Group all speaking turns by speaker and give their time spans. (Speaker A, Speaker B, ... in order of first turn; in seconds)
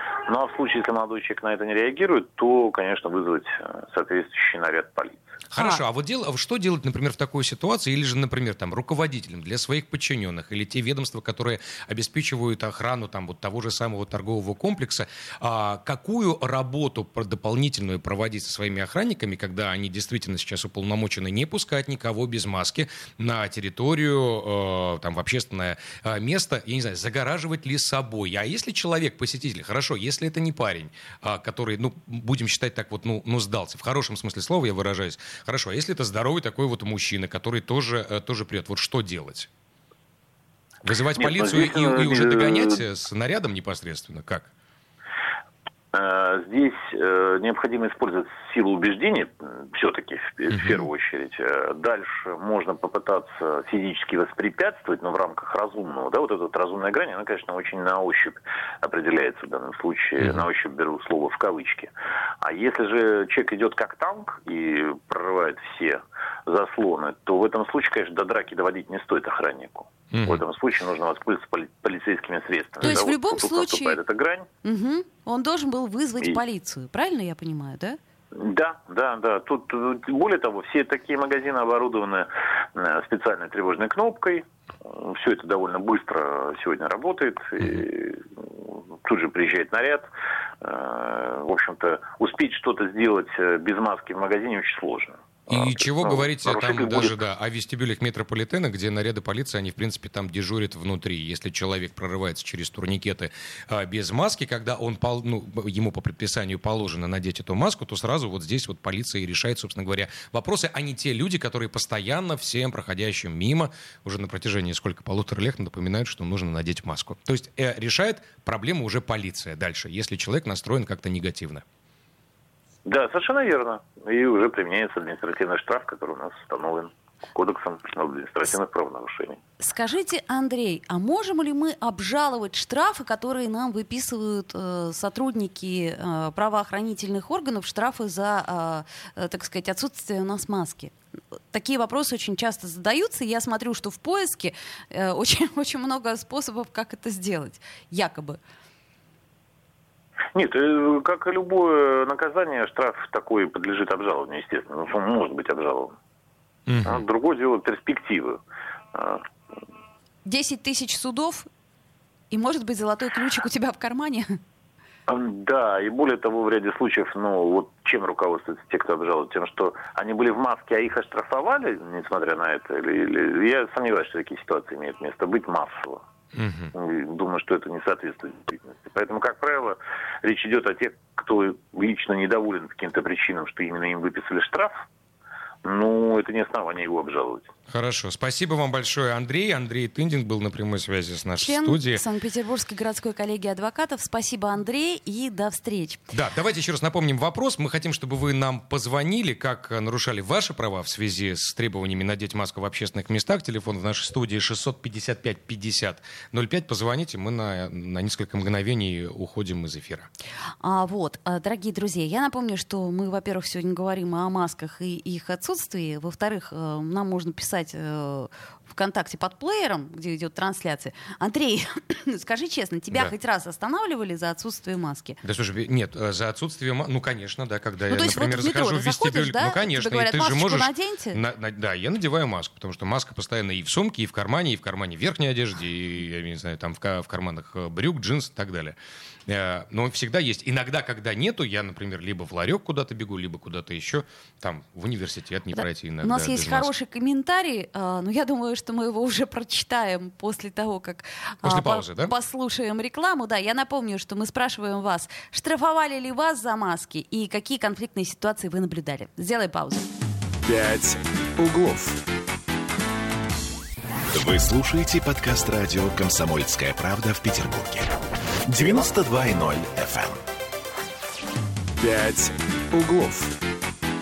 Speaker A: 0.2-5.3, 41.2-42.8, 45.9-74.5, 78.3-90.1, 90.6-97.2, 122.9-129.4, 150.3-156.0, 156.8-158.4, 158.9-159.2, 165.1-176.0, 176.7-184.8, 185.6-187.5
Speaker B: 5.5-39.5, 40.8-44.5, 50.5-50.9, 60.2-60.5, 70.1-70.4, 72.8-73.1, 95.5-121.6, 156.7-157.0, 176.3-176.7, 187.7-192.0, 196.1-210.1, 225.2-246.7, 251.4-252.1
Speaker C: 72.8-74.0, 74.6-78.0, 129.6-140.9, 141.5-148.4, 160.3-161.5, 162.3-164.4, 191.4-196.0, 210.6-225.2, 227.9-231.2, 246.0-259.9
Speaker D: 260.5-262.0, 264.1-267.9, 268.5-270.2, 271.8-273.4